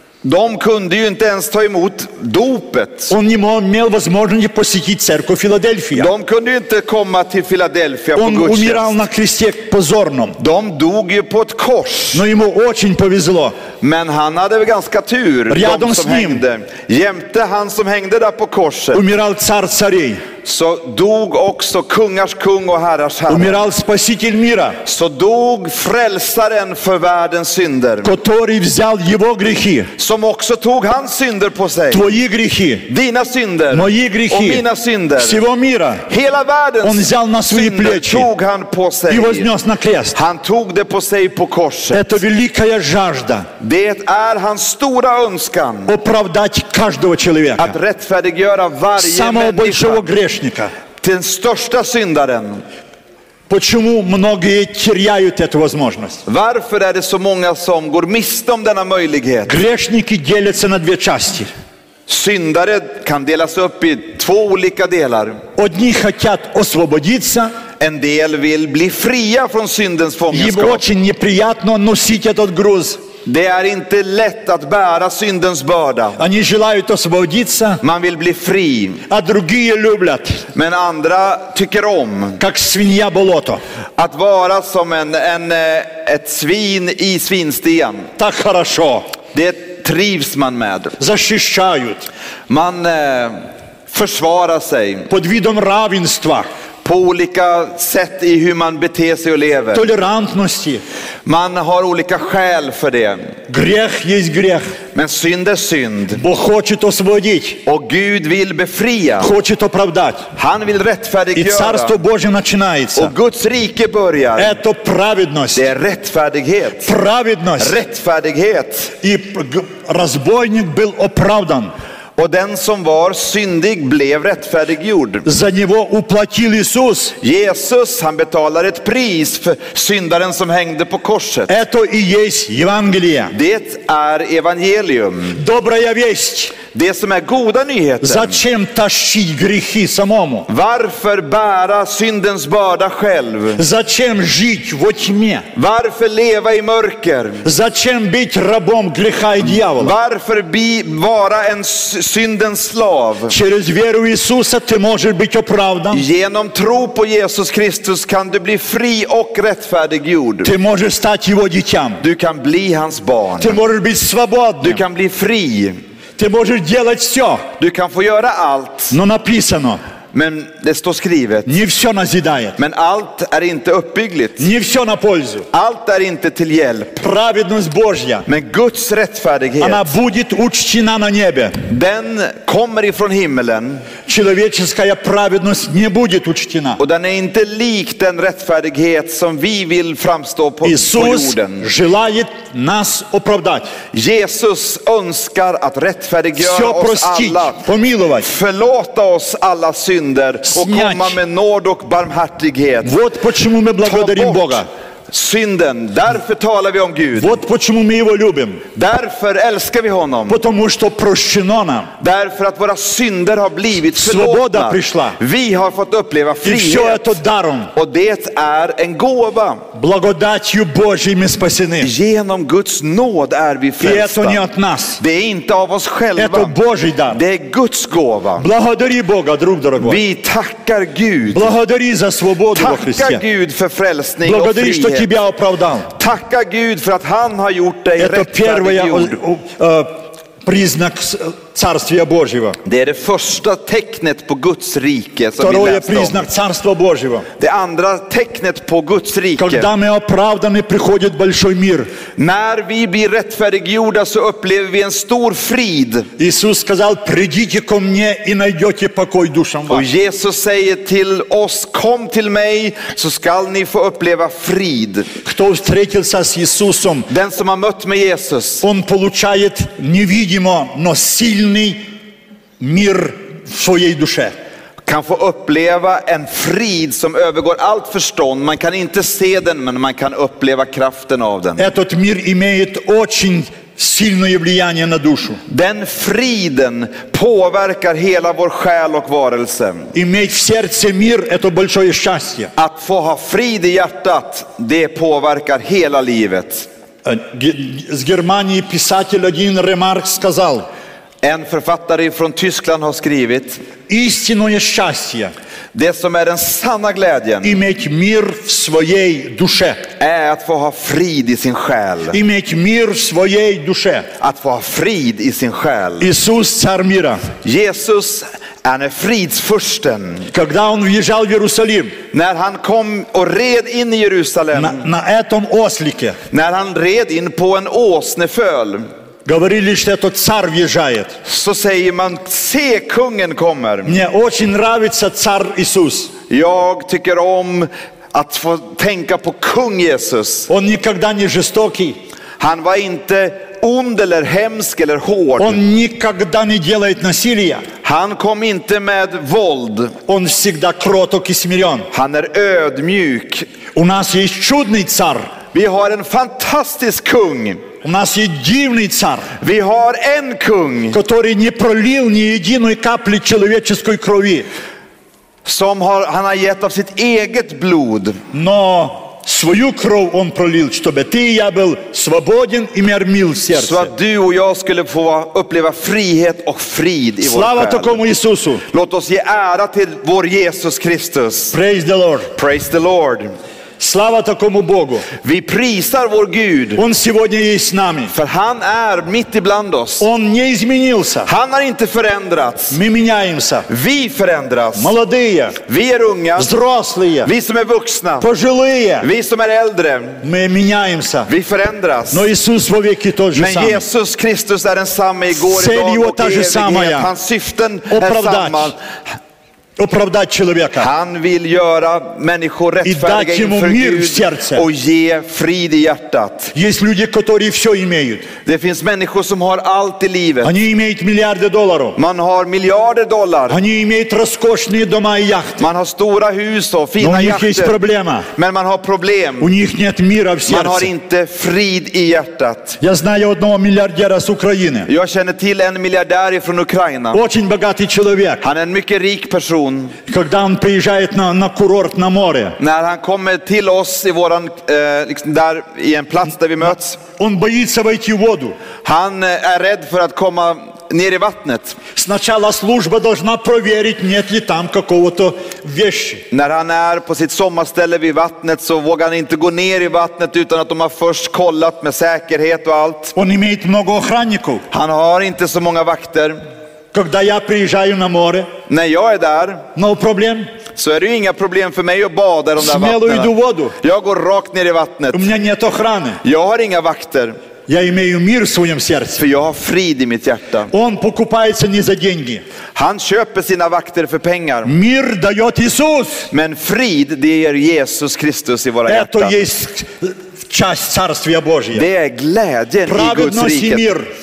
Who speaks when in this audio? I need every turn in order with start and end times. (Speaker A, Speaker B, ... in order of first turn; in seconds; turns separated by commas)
Speaker A: 0.2-3.1, Speaker B: 3.1-6.1, Speaker A: 5.9-8.9, Speaker B: 8.1-10.4, Speaker A: 10.4-12.2, Speaker B: 12.1-13.6, Speaker A: 13.8-19.0, Speaker B: 15.5-16.4, Speaker B: 18.9-20.2, Speaker A: 20.4-23.6, Speaker B: 23.3-24.8, Speaker A: 24.8-28.1, Speaker B: 28.0-29.9, Speaker A: 30.0-32.1, Speaker B: 31.9-32.9, Speaker A: 32.9-35.4, Speaker B: 33.7-34.6, Speaker B: 35.2-36.0, Speaker A: 36.1-39.5, Speaker B: 36.8-38.3, Speaker B: 39.1-40.1, Speaker A: 40.1-42.2, Speaker B: 41.9-43.5, Speaker A: 43.6-45.9, Speaker B: 45.9-47.8, Speaker A: 47.6-50.0, Speaker B: 49.0-50.7, Speaker A: 51.0-52.6, Speaker B: 53.5-56.2, Speaker A: 56.2-59.6, Speaker B: 59.5-61.5, Speaker A: 62.1-65.4, Speaker B: 65.6-67.5, Speaker A: 67.8-70.8, Speaker B: 70.3-73.0, Speaker A: 73.2-76.2, Speaker B: 76.2-77.8, Speaker A: 77.8-79.0, Speaker B: 79.1-80.4, Speaker A: 80.5-82.4, Speaker B: 82.4-83.6, Speaker A: 84.0-88.1, Speaker B: 88.2-89.0, Speaker A: 89.3-91.0, Speaker B: 91.0-92.1, Speaker A: 92.5-95.1, Speaker B: 95.1-96.5, Speaker A: 96.8-99.8, Speaker B: 99.7-100.8, Speaker A: 101.2-103.3, Speaker B: 103.5-104.7, Speaker A: 104.9-106.2, Speaker B: 106.2-107.6, Speaker A: 107.7-109.3, Speaker B: 109.2-110.3, Speaker A: 110.3-112.0, Speaker B: 111.3-113.1, Speaker A: 112.9-114.6, Speaker B: 114.4-115.7, Speaker A: 115.5-116.9, Speaker B: 116.8-117.8, Speaker A: 117.6-118.9, Speaker B: 119.0-121.7, Speaker A: 122.2-125.2, Speaker B: 125.2-127.1, Speaker A: 127.2-131.5, Speaker B: 131.5-133.3, Speaker A: 133.3-135.4, Speaker B: 135.3-136.6, Speaker A: 136.7-138.4, Speaker B: 138.0-140.5, Speaker A: 140.5-143.6, Speaker B: 143.6-145.4, Speaker A: 145.5-147.4, Speaker B: 147.4-149.9, Speaker A: 149.5-153.3, Speaker B: 153.3-156.0, Speaker A: 155.9-160.5, Speaker B: 160.4-162.0, Speaker A: 162.0-163.6, Speaker B: 163.4-164.8, Speaker A: 164.6-165.8, Speaker B: 166.2-167.4, Speaker A: 167.6-168.9, Speaker B: 168.9-169.8, Speaker A: 170.1-171.5, Speaker B: 171.4-172.6, Speaker A: 172.6-174.5, Speaker B: 174.4-175.5, Speaker A: 175.5-177.0, Speaker B: 177.0-178.2, Speaker A: 178.2-179.9, Speaker B: 179.6-181.6, Speaker A: 181.7-183.9, Speaker B: 184.1-186.8, Speaker A: 186.8-191.7, Speaker B: 190.6-193.7, Speaker A: 193.9-197.6, Speaker B: 196.4-198.3, Speaker A: 198.2-202.9, Speaker B: 200.4-201.2, Speaker B: 202.8-204.7, Speaker A: 203.8-207.4, Speaker B: 207.2-208.6, Speaker A: 208.7-210.4, Speaker B: 210.3-211.9, Speaker A: 212.0-217.2, Speaker B: 213.9-215.2, Speaker B: 216.4-217.7, Speaker A: 217.7-219.6, Speaker B: 219.7-221.9, Speaker A: 221.8-224.4, Speaker B: 223.8-225.0, Speaker A: 225.0-226.5, Speaker B: 226.2-227.2, Speaker A: 227.1-228.5, Speaker B: 228.4-230.0, Speaker A: 229.8-231.5, Speaker B: 231.3-233.2, Speaker A: 232.5-235.1, Speaker B: 234.2-235.9, Speaker A: 235.9-239.2, Speaker B: 238.0-242.6, Speaker A: 242.6-246.2, Speaker B: 245.4-247.2, Speaker A: 247.4-249.7, Speaker B: 249.4-251.9, Speaker A: 252.2-256.1, Speaker B: 256.2-259.9, Speaker A: 259.7-265.1, Speaker B: 265.2-267.1, Speaker A: 267.1-268.6, Speaker B: 268.6-271.8, Speaker B: 272.6-274.3, Speaker A: 274.8-281.7, Speaker B: 281.6-285.4, Speaker A: 285.5-289.9, Speaker B: 289.9-292.5, Speaker A: 292.6-296.7, Speaker B: 297.0-300.6, Speaker A: 301.2-303.6, Speaker B: 303.9-305.3, Speaker A: 305.7-307.6, Speaker B: 307.4-309.8, Speaker A: 310.0-312.2, Speaker B: 312.1-314.1, Speaker A: 314.2-316.1, Speaker B: 316.0-317.2, Speaker A: 317.4-320.3, Speaker B: 320.3-321.9, Speaker A: 322.1-324.9, Speaker B: 324.5-326.2, Speaker A: 326.3-328.9, Speaker B: 329.2-331.1, Speaker A: 331.2-334.0, Speaker B: 333.8-336.1, Speaker A: 336.3-340.5, Speaker B: 340.5-342.0, Speaker A: 342.4-345.6, Speaker B: 345.4-347.6, Speaker A: 347.8-349.9, Speaker B: 350.1-351.9, Speaker A: 351.9-353.5, Speaker B: 353.7-355.3, Speaker A: 355.5-357.6, Speaker B: 357.8-359.3, Speaker A: 359.4-361.0, Speaker B: 360.9-364.5, Speaker A: 365.4-368.2, Speaker B: 368.3-373.9, Speaker A: 373.5-378.0, Speaker B: 377.2-378.6, Speaker A: 378.7-381.6, Speaker B: 381.5-382.3, Speaker A: 382.3-383.3, Speaker B: 383.8-385.1, Speaker A: 385.2-386.8, Speaker B: 386.8-388.1, Speaker A: 388.1-390.1, Speaker B: 390.0-391.3, Speaker A: 391.2-392.8, Speaker B: 392.7-393.7, Speaker A: 393.7-394.9, Speaker B: 394.8-395.6, Speaker A: 395.6-396.5, Speaker B: 396.4-397.3, Speaker A: 397.2-398.3, Speaker B: 398.2-399.1, Speaker A: 399.0-400.2, Speaker B: 400.2-401.3, Speaker A: 401.3-402.3, Speaker B: 402.1-403.8, Speaker A: 403.3-408.8, Speaker B: 405.3-407.1, Speaker B: 407.9-408.7, Speaker B: 409.8-410.9, Speaker A: 410.8-416.5, Speaker B: 412.8-414.6, Speaker B: 416.5-418.3, Speaker A: 418.4-420.5, Speaker B: 420.4-422.0, Speaker A: 421.9-423.6, Speaker B: 423.5-425.6, Speaker A: 425.6-427.8, Speaker B: 427.0-428.3, Speaker A: 428.3-429.5, Speaker B: 429.4-430.9, Speaker A: 430.4-432.8, Speaker B: 432.8-434.9, Speaker A: 434.9-437.2, Speaker B: 437.1-438.4, Speaker A: 438.4-440.0, Speaker B: 440.1-442.6, Speaker A: 442.6-447.0, Speaker B: 447.0-448.6, Speaker A: 448.8-451.8, Speaker B: 451.9-456.2, Speaker A: 456.3-463.1, Speaker B: 463.1-464.6, Speaker A: 464.7-466.4, Speaker B: 466.9-468.5, Speaker A: 468.7-469.7, Speaker B: 469.7-470.5, Speaker A: 470.7-475.3, Speaker B: 472.6-473.7, Speaker B: 475.1-476.2, Speaker A: 476.2-477.4, Speaker B: 477.7-479.2, Speaker A: 479.2-480.7, Speaker B: 480.7-482.4, Speaker A: 482.7-484.7, Speaker B: 484.6-486.3, Speaker A: 486.3-489.4, Speaker B: 488.9-491.9, Speaker A: 491.7-493.9, Speaker B: 492.9-494.1